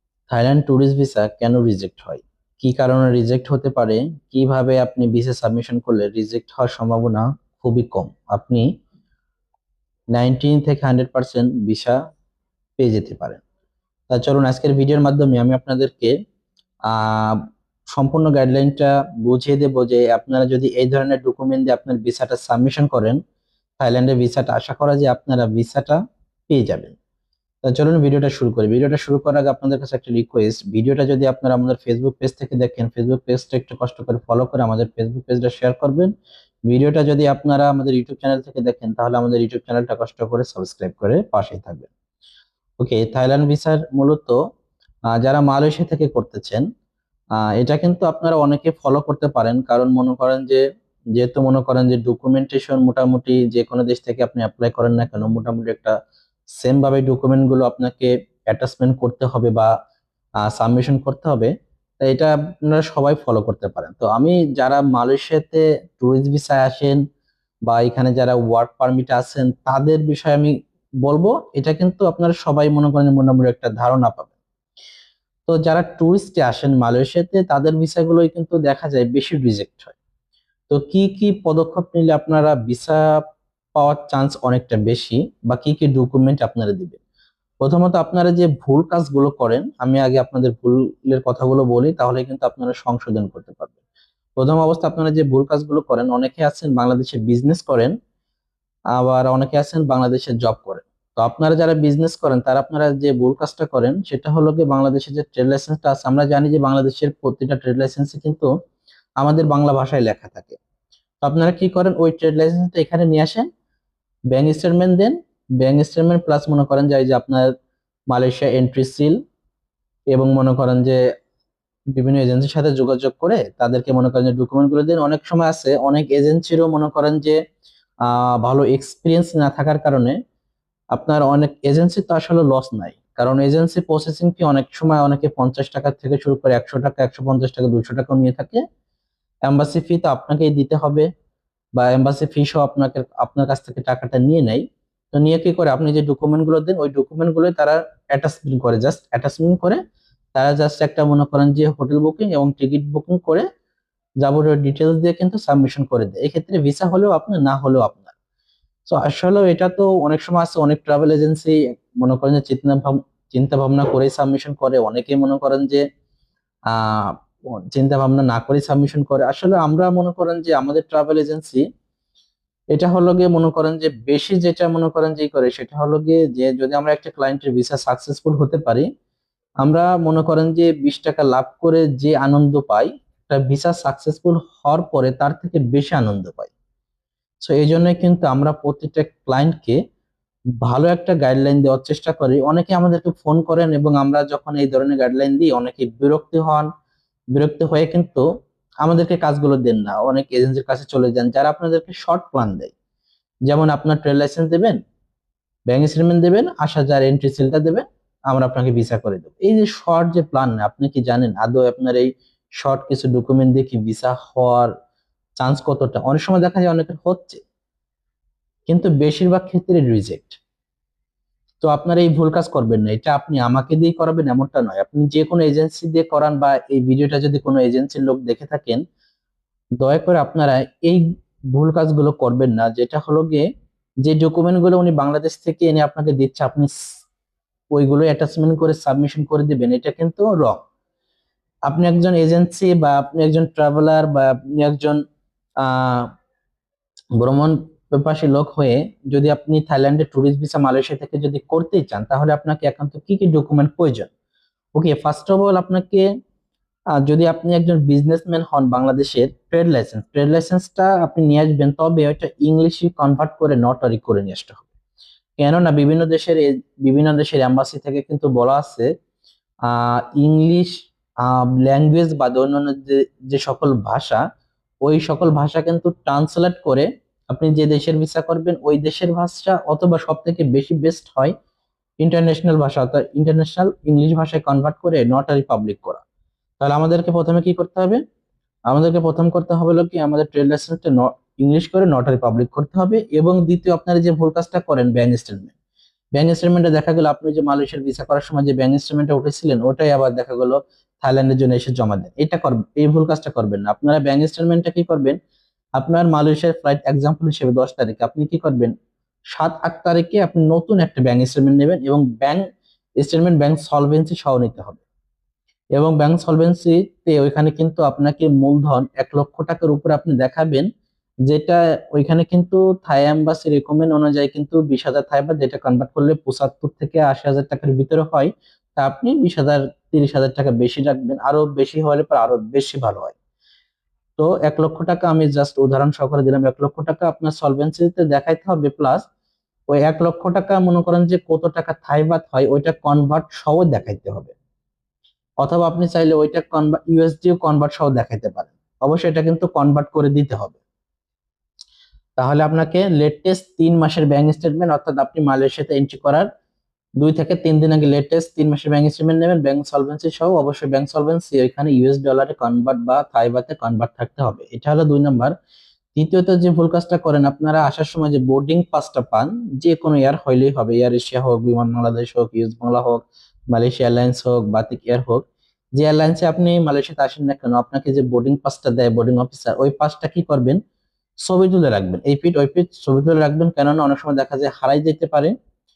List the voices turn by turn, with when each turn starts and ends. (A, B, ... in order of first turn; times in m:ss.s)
0:00.3-0:08.7 A
0:10.1-0:12.0 A
0:12.8-0:13.4 A
0:14.1-0:16.1 A
0:16.9-0:23.2 A
0:23.8-0:27.0 A
0:27.6-0:36.1 A
0:36.7-0:41.9 A
0:42.8-0:44.4 A
0:45.1-0:46.6 A
0:47.5-0:50.6 A
0:51.2-0:55.9 A
0:56.6-0:59.7 A
1:00.4-1:07.0 A
1:07.7-1:14.3 A
1:15.5-1:20.0 A
1:20.7-1:23.2 A
1:23.7-1:27.0 A
1:27.6-1:33.8 A
1:34.4-1:37.9 A
1:39.0-1:48.5 A
1:49.2-1:50.6 A
1:51.2-1:53.5 A
1:54.3-1:57.5 A
1:58.1-1:59.2 A
2:00.1-2:01.0 A
2:01.9-2:07.4 A
2:08.0-2:10.2 A
2:10.9-2:18.6 A
2:19.4-2:21.1 A
2:21.7-2:29.8 A
2:30.3-2:33.4 A
2:34.2-2:38.1 A
2:38.9-2:45.8 A
2:46.7-2:47.2 A
2:47.7-2:51.6 A
2:52.7-2:58.8 A
2:59.6-3:06.5 A
3:07.4-3:09.8 A
3:10.6-3:16.7 A
3:17.3-3:18.2 A
3:18.8-3:22.7 A
3:23.5-3:24.8 A
3:25.7-3:32.1 A
3:32.6-3:34.7 A
3:35.4-3:37.4 A
3:38.7-3:40.4 A
3:41.6-3:48.8 A
3:49.8-3:53.5 A
3:54.0-3:56.7 A
3:57.7-4:00.6 A
4:01.7-4:05.0 A
4:05.6-4:06.1 A
4:07.2-4:14.1 A
4:14.7-4:16.1 A
4:17.0-4:24.6 A
4:25.4-4:28.9 A
4:29.6-4:30.7 A
4:31.2-4:34.2 A
4:34.8-4:41.3 A
4:42.0-4:46.0 A
4:46.6-4:48.0 A
4:48.7-4:55.5 A
4:56.1-5:05.2 A
5:05.8-5:08.7 A
5:09.3-5:12.4 A
5:13.0-5:14.8 A
5:15.7-5:20.7 A
5:21.2-5:33.2 A
5:34.2-5:39.0 A
5:39.7-5:44.3 A
5:45.4-5:50.6 A
5:52.2-5:56.3 A
5:57.0-6:05.3 A
6:05.9-6:15.2 A
6:15.8-6:20.6 A
6:21.2-6:25.3 A